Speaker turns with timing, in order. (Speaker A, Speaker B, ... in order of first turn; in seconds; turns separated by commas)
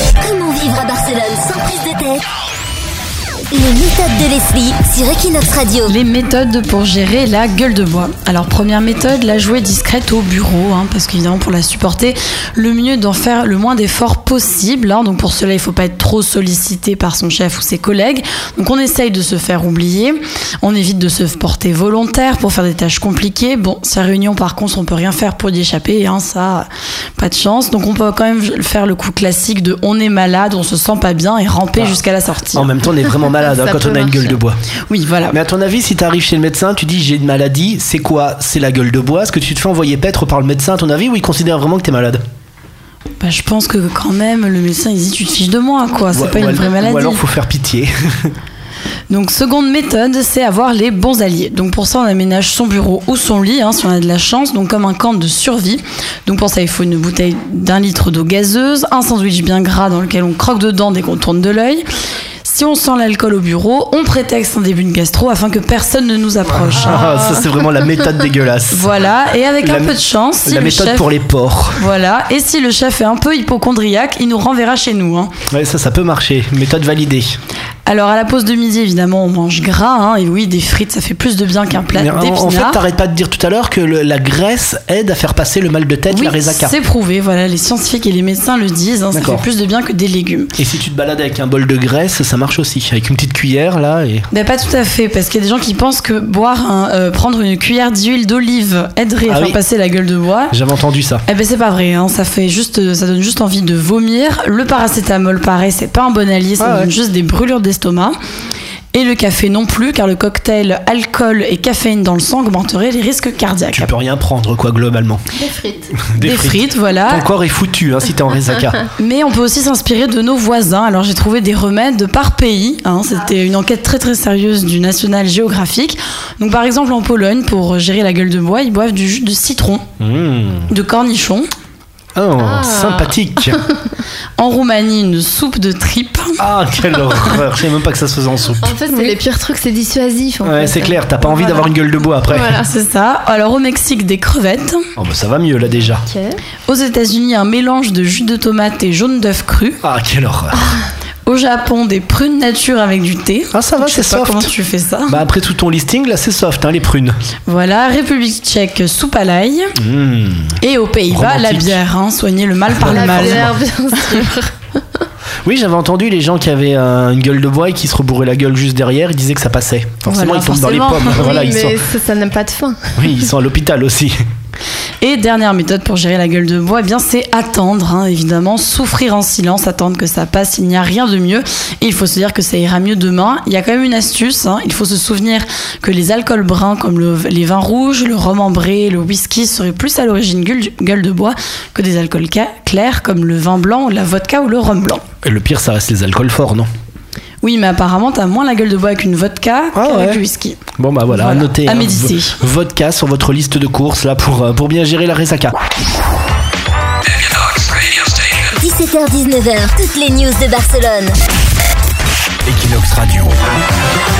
Speaker A: 0.2-2.2, Speaker A: 3.5-5.9, Speaker B: 5.8-32.8, Speaker C: 32.5-34.6, Speaker D: 33.4-34.3, Speaker B: 34.9-35.4, Speaker C: 35.3-42.2, Speaker B: 43.2-47.2, Speaker C: 46.1-48.3, Speaker B: 49.1-61.8, Speaker B: 62.4-67.4, Speaker C: 66.6-68.9, Speaker B: 68.7-71.1, Speaker C: 69.6-71.8, Speaker B: 71.8-75.3, Speaker C: 75.5-77.4, Speaker B: 77.9-82.8, Speaker C: 81.9-86.7, Speaker B: 86.1-90.5, Speaker C: 89.1-89.4, Speaker C: 90.6-94.3, Speaker B: 94.3-100.5, Speaker C: 99.3-99.6, Speaker C: 100.5-101.2, Speaker B: 101.3-108.1, Speaker C: 106.6-106.9, Speaker B: 108.9-113.9, Speaker C: 113.7-115.2, Speaker D: 115.3-116.0, Speaker C: 116.0-118.8, Speaker B: 116.2-117.3, Speaker B: 119.0-129.8, Speaker C: 130.0-130.7, Speaker B: 130.7-131.5, Speaker C: 132.2-133.6, Speaker D: 132.4-133.8, Speaker B: 134.4-136.4, Speaker C: 136.4-138.7, Speaker D: 138.6-141.2, Speaker B: 138.9-139.2, Speaker C: 140.4-142.6, Speaker D: 142.3-142.7, Speaker B: 142.6-144.8, Speaker C: 145.0-146.0, Speaker D: 146.1-146.4, Speaker B: 146.7-149.8, Speaker C: 149.8-150.7, Speaker B: 151.3-155.2, Speaker C: 153.5-154.5, Speaker C: 155.1-157.2, Speaker B: 157.5-159.7, Speaker C: 159.8-161.8, Speaker B: 160.6-164.1, Speaker C: 162.8-163.6, Speaker D: 162.8-165.0, Speaker C: 165.4-171.8, Speaker B: 170.1-171.3, Speaker D: 171.1-173.3, Speaker C: 172.9-174.1, Speaker B: 175.0-195.0, Speaker C: 195.2-196.7, Speaker B: 197.4-202.4, Speaker C: 199.7-200.2, Speaker C: 200.8-205.5, Speaker A: 208.6-211.2, Speaker C: 212.4-213.4